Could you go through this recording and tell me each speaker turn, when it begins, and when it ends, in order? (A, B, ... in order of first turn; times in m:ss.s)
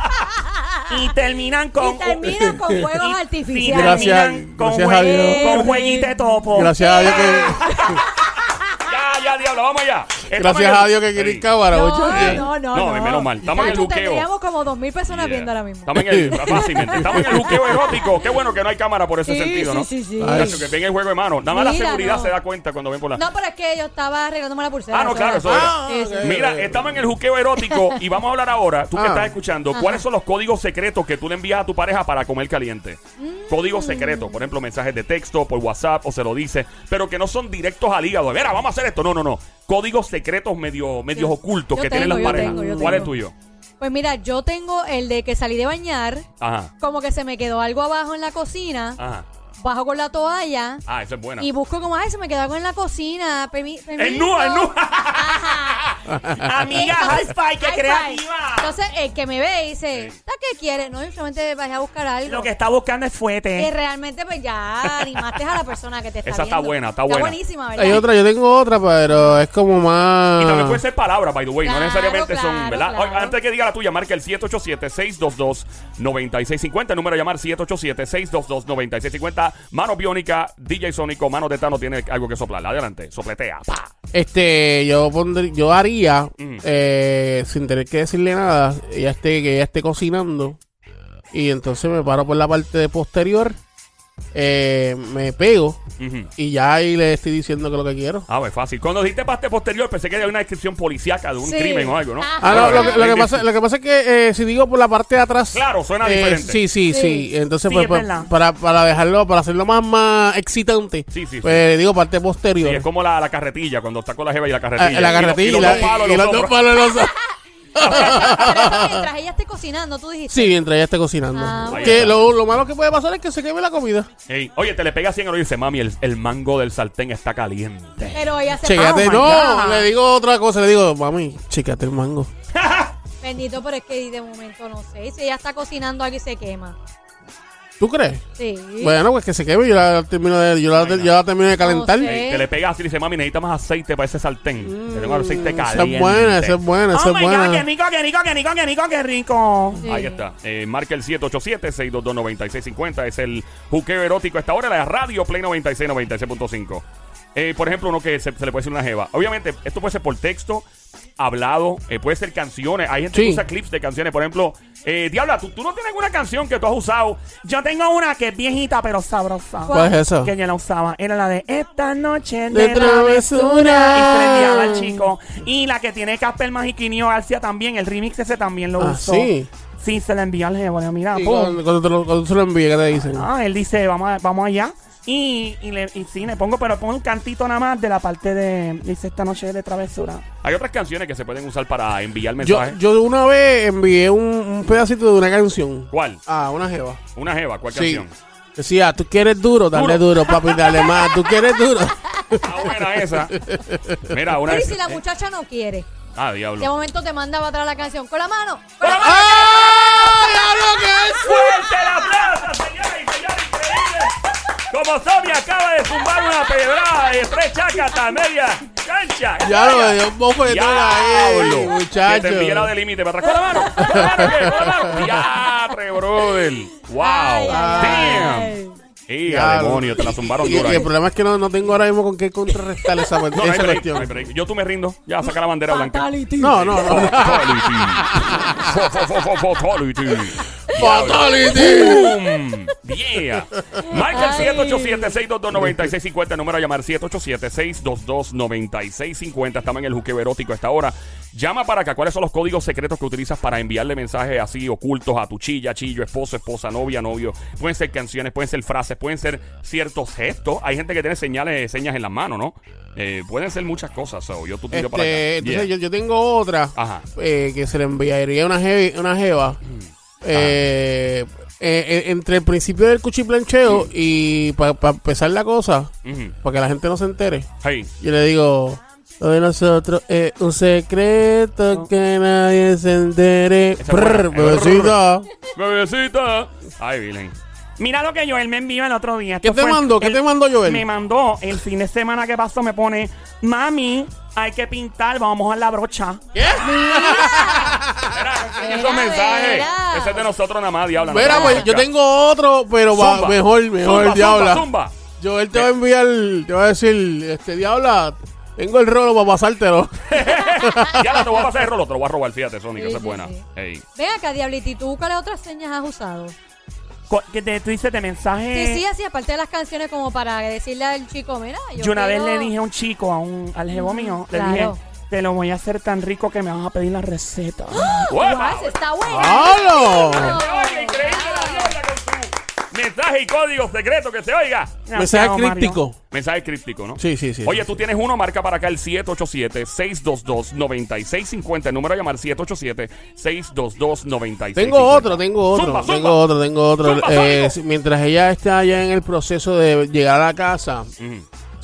0:00.1-0:00.9 A
0:00.9-0:07.9 B
0:01.8-0:04.2 A
0:03.6-0:05.7 C
0:04.9-0:08.7 A
0:06.5-0:07.9 C
0:08.8-0:11.5 D
0:10.3-0:12.5 C
0:11.7-0:18.0 A
0:12.0-0:14.3 D
0:15.1-0:23.2 D
0:16.0-0:17.8 C
0:19.2-0:20.6 A
0:20.2-0:20.7 C
0:21.5-0:22.3 A
0:23.2-0:26.4 A
0:24.9-0:43.3 D
0:25.4-0:27.1 C
0:27.6-0:28.0 A
0:28.9-0:29.3 C
0:29.7-0:30.0 A
0:33.2-0:34.4 A
0:41.1-0:43.1 A
0:42.0-0:43.0 C
0:43.8-0:46.2 A
0:46.4-0:46.7 D
0:46.8-0:49.0 A
0:49.0-0:49.2 D
0:49.6-0:50.8 A
0:50.8-0:51.5 D
0:51.4-0:55.9 A
0:54.0-0:56.2 D
0:56.1-0:56.4 C
0:56.3-0:58.7 B
0:56.7-1:02.5 A
1:02.2-1:03.7 B
1:03.6-1:08.0 A
1:05.0-1:05.4 D
1:06.2-1:08.0 D
1:07.8-1:10.8 C
1:10.4-1:23.9 D
1:11.6-1:13.3 A
1:24.1-1:30.6 C
1:26.4-1:26.6 D
1:31.3-1:33.6 C
1:34.3-1:35.8 C
1:36.0-1:36.3 D
1:36.4-1:38.3 C
1:38.3-1:43.4 D
1:41.4-1:43.0 A
1:42.4-1:52.8 C
1:45.5-1:46.6 D
1:46.9-1:47.3 A
1:47.7-1:48.3 B
1:51.1-1:51.6 D
1:52.6-1:56.6 D
1:54.8-1:57.1 C
1:57.7-1:59.1 C
1:57.8-2:00.6 A
2:00.3-2:04.1 C
2:01.3-2:02.1 A
2:01.7-2:02.2 D
2:04.3-2:08.2 D
2:08.1-2:09.5 A
2:08.6-2:12.3 C
2:08.7-2:09.9 B
2:12.6-2:12.9 D
2:13.2-2:16.8 A
2:17.8-2:18.2 C
2:18.4-2:19.0 A
2:18.8-2:22.2 C
2:20.7-2:21.1 D
2:21.6-2:22.5 A
2:22.0-2:26.6 D
2:24.6-2:27.7 C
2:26.9-2:29.8 B
2:29.8-2:30.2 A
2:29.9-2:36.8 D
2:37.3-2:40.6 D
2:41.2-2:47.3 D
2:43.1-2:43.4 C
2:47.4-3:01.6 B
2:49.7-2:49.9 A
2:49.7-2:50.3 C
2:52.5-2:55.1 C
2:58.8-2:59.5 C
3:01.1-3:03.3 C
3:03.0-3:10.3 B
3:10.4-3:12.8 D
3:12.4-3:17.0 C
3:15.9-3:16.2 D
3:17.1-3:18.1 D
3:17.7-3:24.2 C
3:19.7-3:20.6 D
3:20.6-3:21.3 A
3:22.4-3:23.4 D
3:24.1-3:25.0 D
3:24.4-3:25.9 A
3:26.2-3:26.7 D
3:26.6-3:31.5 A
3:28.8-3:29.8 D
3:28.9-3:31.6 C
3:31.2-3:34.2 D
3:34.7-3:48.6 D
3:39.4-3:42.7 C
3:43.5-3:44.5 A
3:43.8-3:45.0 C
3:47.0-3:48.8 A
3:47.5-3:48.4 C
3:49.1-3:50.9 D
3:49.2-3:54.1 C
3:50.4-3:50.9 A
3:52.8-3:53.1 A
3:53.3-4:25.7 D
3:55.7-3:57.3 A
3:56.4-3:58.6 C
3:58.1-3:58.7 A
4:00.7-4:02.1 C
4:00.8-4:02.5 A
4:03.5-4:03.8 C
4:03.9-4:05.2 A
4:24.7-4:29.6 C
4:26.7-4:27.0 D
4:29.7-4:30.6 D
4:30.2-4:37.5 C
4:36.0-4:36.3 D
4:37.6-4:37.9 D
4:38.0-4:45.3 C
4:43.8-4:47.3 D
4:47.8-4:56.2 B
4:49.4-4:50.9 C
4:56.3-4:58.4 C
4:56.6-4:57.9 A
4:58.1-5:01.8 D
4:58.5-5:00.3 A
5:01.0-5:11.3 C
5:01.2-5:01.7 A
5:02.9-5:04.9 D
5:10.1-5:13.8 D
5:10.6-5:11.1 A
5:12.8-5:13.4 A
5:13.9-5:16.3 A
5:17.1-5:18.8 B
5:18.5-5:22.5 A
5:21.8-5:28.0 B
5:23.7-5:24.8 A
5:27.7-5:31.8 A
5:28.1-5:28.8 D
5:29.0-5:30.4 C
5:29.9-5:34.8 D
5:34.8-5:35.8 B
5:34.9-5:36.0 C
5:36.1-5:46.2 D
5:37.0-5:37.8 C
5:44.6-5:50.9 C
5:46.8-5:47.6 D
5:51.0-5:51.2 D